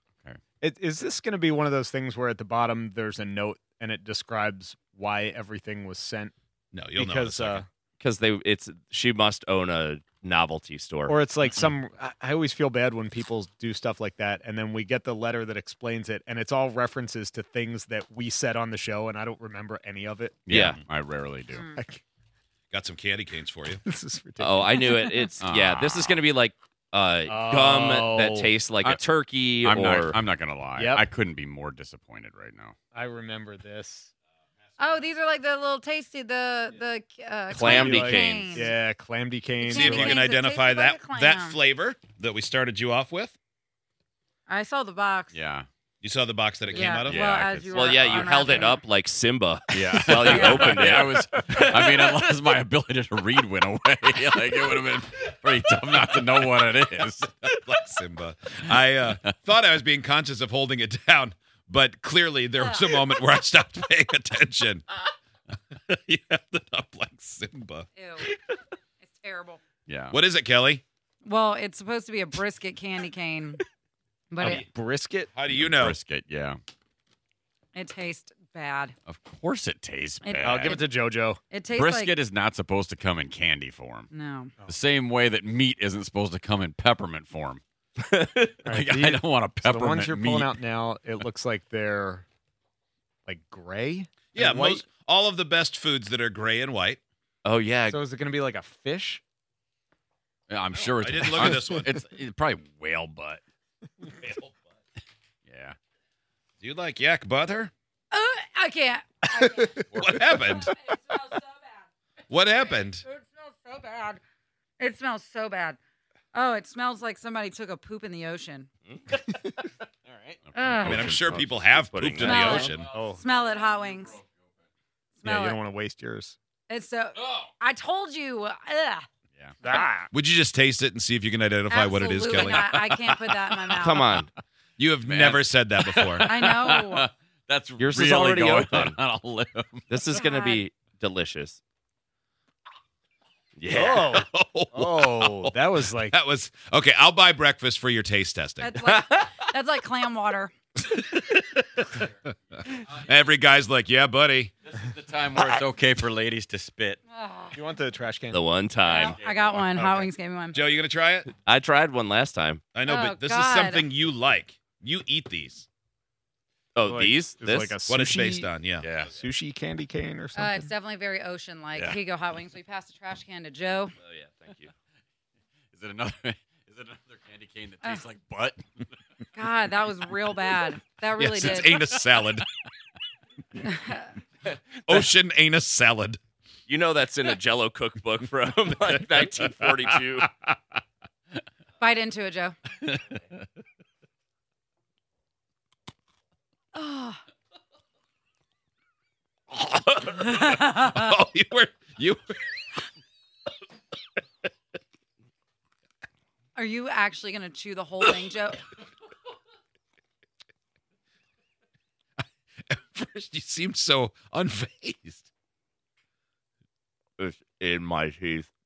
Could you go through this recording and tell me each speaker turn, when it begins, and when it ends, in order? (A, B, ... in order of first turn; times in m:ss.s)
0:00.6-0:06.3 A
0:06.7-0:07.6 B
0:06.9-0:07.7 A
0:08.0-0:11.2 C
0:11.1-0:20.6 A
0:20.4-0:21.7 D
0:20.5-0:20.8 C
0:21.5-0:21.8 E
0:21.6-0:22.0 A
0:22.7-0:23.8 B
0:23.7-0:25.1 A
0:24.4-0:30.2 C
0:25.4-0:26.2 D
0:27.3-0:28.5 A
0:29.6-0:32.7 D
0:30.7-0:31.1 A
0:32.9-0:34.1 A
0:34.8-0:38.7 E
0:37.5-0:38.7 C
0:37.5-0:40.2 A
0:39.6-0:41.6 E
0:39.7-0:43.4 B
0:44.5-0:45.4 E
0:45.3-0:45.7 D
0:46.0-0:47.2 B
0:46.7-0:48.8 E
0:47.0-0:48.6 D
0:47.7-0:52.3 C
0:49.7-0:57.3 D
0:50.2-0:50.7 E
0:57.4-1:05.0 B
1:02.6-1:02.9 E
1:05.7-1:07.9 B
1:07.9-1:08.3 E
1:09.0-1:09.6 E
1:09.9-1:10.2 D
1:10.1-1:10.8 B
1:11.2-1:13.6 E
1:14.3-1:14.6 E
1:14.4-1:15.4 A
1:15.3-1:16.0 B
1:15.4-1:16.6 D
1:17.7-1:18.9 E
1:19.1-1:20.8 D
1:20.2-1:20.8 E
1:20.4-1:21.4 A
1:21.5-1:22.2 E
1:21.7-1:24.1 D
1:24.1-1:24.5 E
1:24.7-1:27.6 D
1:28.0-1:28.7 C
1:28.6-1:32.2 A
1:28.7-1:30.6 D
1:33.2-1:34.9 A
1:34.3-1:37.0 B
1:37.4-1:38.0 C
1:37.9-1:39.2 A
1:40.5-1:43.4 D
1:40.8-1:41.9 B
1:44.0-1:44.6 B
1:45.5-1:45.8 D
1:46.6-1:47.7 B
1:48.1-1:51.9 E
1:49.9-1:50.2 D
1:50.0-1:50.7 B
1:52.3-1:53.0 B
1:52.6-1:54.2 E
1:54.8-1:55.8 E
1:56.3-1:58.7 E
2:00.1-2:01.0 D
2:00.5-2:01.0 E
2:00.8-2:02.5 C
2:00.8-2:02.9 B
2:02.2-2:04.2 E
2:02.4-2:03.2 A
2:02.6-2:04.5 D
2:05.2-2:05.6 E
2:05.2-2:06.4 A
2:06.7-2:09.0 E
2:09.6-2:10.1 A
2:10.1-2:12.6 B
2:11.7-2:14.2 E
2:12.5-2:13.6 D
2:13.8-2:14.3 C
2:14.8-2:16.3 B
2:15.0-2:19.8 D
2:16.2-2:17.1 E
2:17.8-2:19.0 C
2:19.9-2:21.6 C
2:20.1-2:20.6 E
2:23.6-2:24.2 C
2:23.7-2:26.2 A
2:24.1-2:28.7 B
2:28.6-2:30.5 E
2:28.8-2:29.3 C
2:30.8-2:32.1 B
2:32.7-2:34.5 B
2:34.6-2:37.0 D
2:37.1-2:37.7 E
2:37.5-2:38.4 A
2:38.3-2:39.2 C
2:38.9-2:40.7 E
2:39.1-2:39.8 D
2:40.5-2:41.3 B
2:41.4-2:42.6 C
2:42.7-2:45.7 B
2:42.8-2:43.9 E
2:46.8-2:47.8 C
2:46.8-2:50.7 A
2:47.8-2:48.9 B
2:48.8-2:49.2 D
2:50.3-2:53.9 E
2:54.0-2:54.7 C
2:55.7-2:58.9 D
2:59.3-3:02.0 E
3:01.2-3:02.4 B
3:03.6-3:04.1 E
3:04.8-3:06.2 B
3:06.7-3:10.3 C
3:11.8-3:12.6 E
3:16.7-3:17.2 E
3:19.5-3:22.4 B
3:20.4-3:20.9 E
3:26.5-3:28.7 E
3:32.2-3:35.3 B
3:37.2-3:38.5 C